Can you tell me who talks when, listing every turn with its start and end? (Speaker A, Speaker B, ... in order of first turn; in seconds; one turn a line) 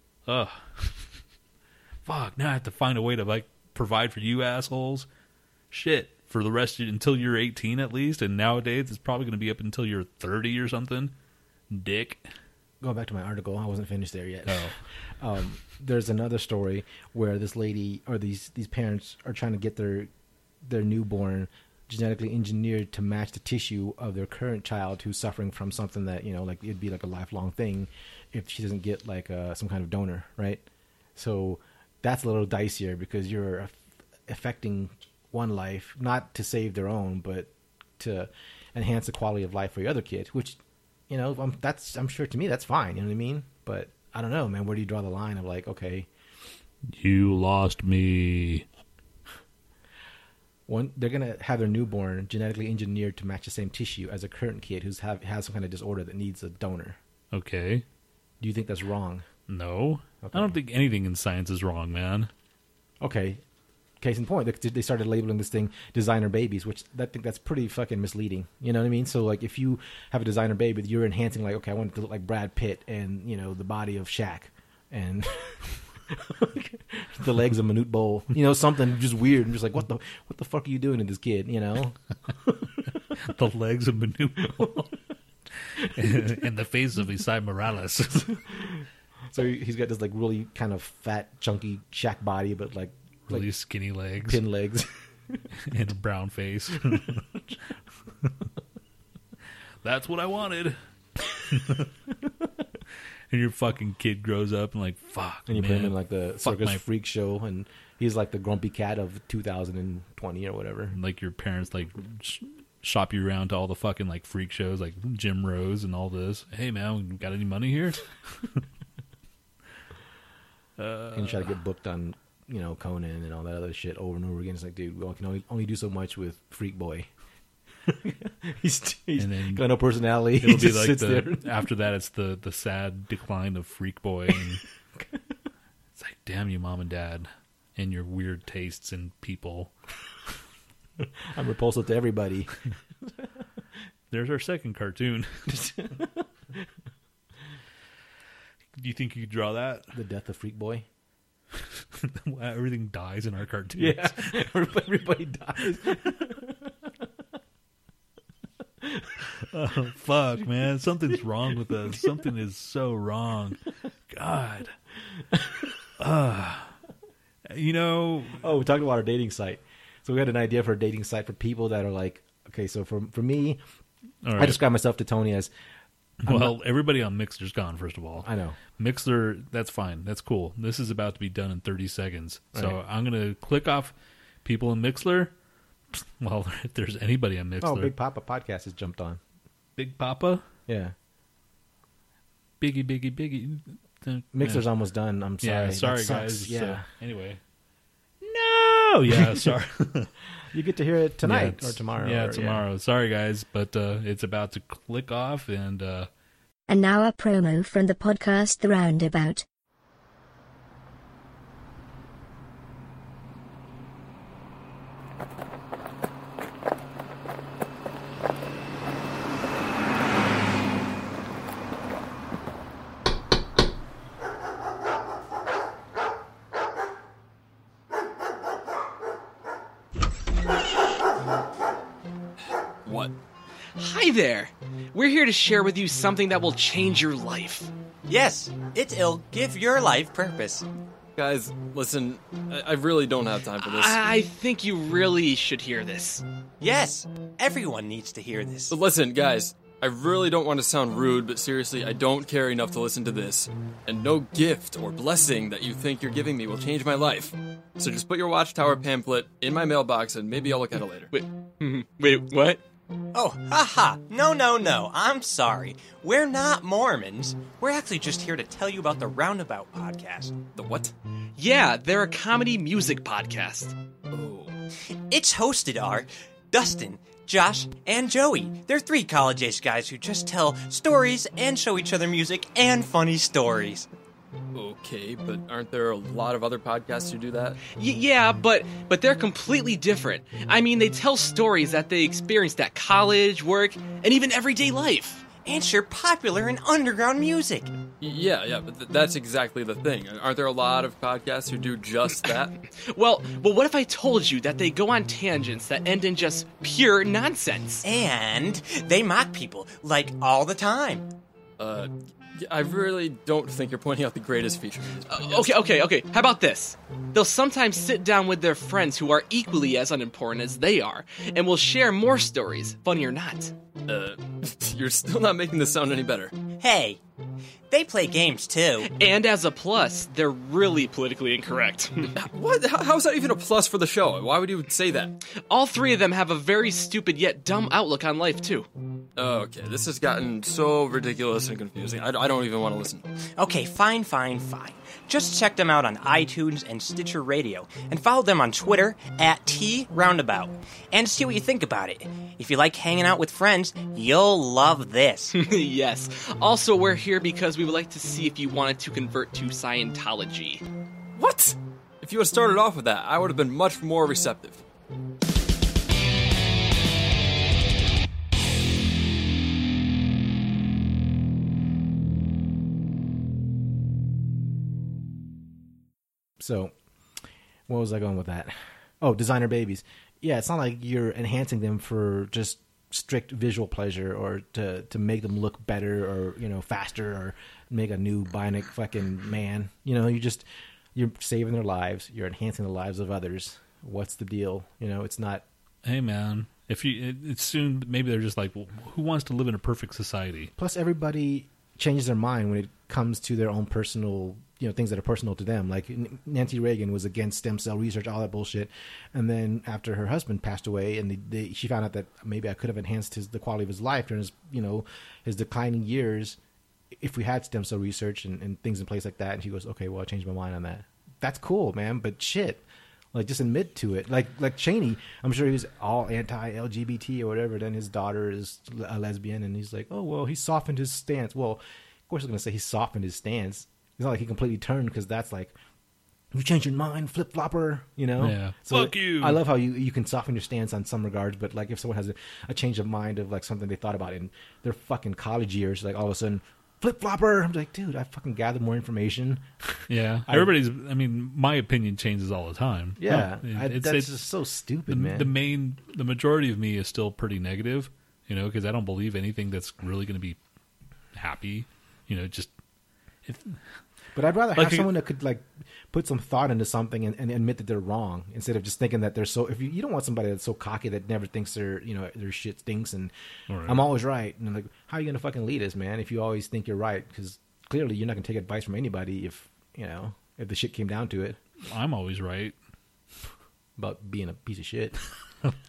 Speaker A: 0.2-1.2
Speaker A: 2.0-5.1
Speaker A: 5.7-11.1
Speaker A: 11.7-12.2
Speaker B: 12.8-20.1
Speaker A: 14.4-14.8
Speaker B: 20.6-30.6
Speaker B: 31.1-46.1
Speaker A: 46.9-48.6
Speaker B: 50.7-57.0
Speaker A: 57.3-57.8
Speaker B: 58.4-59.2
Speaker A: 59.5-62.3
Speaker B: 60.2-60.5
Speaker B: 63.0-63.4
Speaker B: 64.0-82.7
Speaker A: 83.2-84.9
Speaker A: 85.5-88.4
Speaker B: 89.3-93.5
Speaker A: 93.3-94.4
Speaker B: 94.2-95.4
Speaker A: 95.5-97.2
Speaker A: 99.8-100.8
Speaker A: 101.5-101.9
Speaker A: 103.3-106.8
Speaker B: 105.5-111.0
Speaker A: 110.9-118.6
Speaker A: 120.8-121.5
Speaker B: 121.1-127.1
Speaker B: 128.0-131.5
Speaker A: 129.2-129.7
Speaker A: 130.4-134.6
Speaker A: 135.9-139.7
Speaker B: 141.2-142.8
Speaker A: 144.1-145.7
Speaker B: 145.6-146.6
Speaker A: 148.7-149.9
Speaker B: 149.9-150.8
Speaker A: 151.5-154.5
Speaker B: 153.7-156.7
Speaker B: 158.8-159.2
Speaker A: 159.3-164.7
Speaker A: 166.0-166.8
Speaker A: 167.4-168.4
Speaker B: 168.4-173.6
Speaker A: 174.2-174.6
Speaker B: 174.4-175.5
Speaker A: 176.2-185.3
Speaker B: 176.2-176.5
Speaker B: 178.2-178.6
Speaker A: 185.9-187.9
Speaker B: 187.6-189.2
Speaker A: 189.8-190.4
Speaker B: 190.7-190.9
Speaker A: 192.6-194.6
Speaker B: 194.3-196.9
Speaker A: 195.4-197.4
Speaker A: 198.2-200.1
Speaker B: 200.5-202.6
Speaker A: 201.2-206.1
Speaker C: 206.7-209.4
Speaker D: 232.8-233.1
Speaker E: 233.7-237.7
Speaker F: 238.1-240.7
Speaker D: 241.2-244.0
Speaker E: 243.6-246.2
Speaker F: 246.6-248.8
Speaker D: 248.7-262.6
Speaker F: 263.1-270.4
Speaker D: 270.6-270.9
Speaker E: 271.4-273.7
Speaker D: 274.1-274.5
Speaker F: 275.1-283.9
Speaker D: 284.5-287.6
Speaker E: 287.8-295.2
Speaker F: 295.4-297.7
Speaker D: 298.0-302.5
Speaker E: 302.8-307.8
Speaker F: 307.8-311.1
Speaker D: 311.6-315.6
Speaker E: 315.1-323.5
Speaker D: 323.9-326.3
Speaker F: 326.6-327.0
Speaker F: 327.7-328.9
Speaker E: 328.9-332.1
Speaker D: 332.1-335.1
Speaker E: 335.3-338.7
Speaker D: 339.1-343.1
Speaker F: 343.4-355.3
Speaker E: 355.3-361.6
Speaker D: 362.0-364.6
Speaker B: 376.4-376.7
Speaker B: 377.7-395.4
Speaker A: 395.8-400.5
Speaker B: 400.6-416.4
Speaker B: 417.0-435.5
Speaker B: 436.3-450.5
Speaker A: 438.2-439.4
Speaker A: 449.9-454.1
Speaker B: 453.0-455.3
Speaker A: 454.9-460.4
Speaker A: 461.1-462.5
Speaker A: 463.2-463.6
Speaker B: 464.1-473.1
Speaker A: 464.5-464.9
Speaker A: 473.5-473.9
Speaker B: 473.6-481.4
Speaker A: 481.6-482.6
Speaker B: 483.8-485.1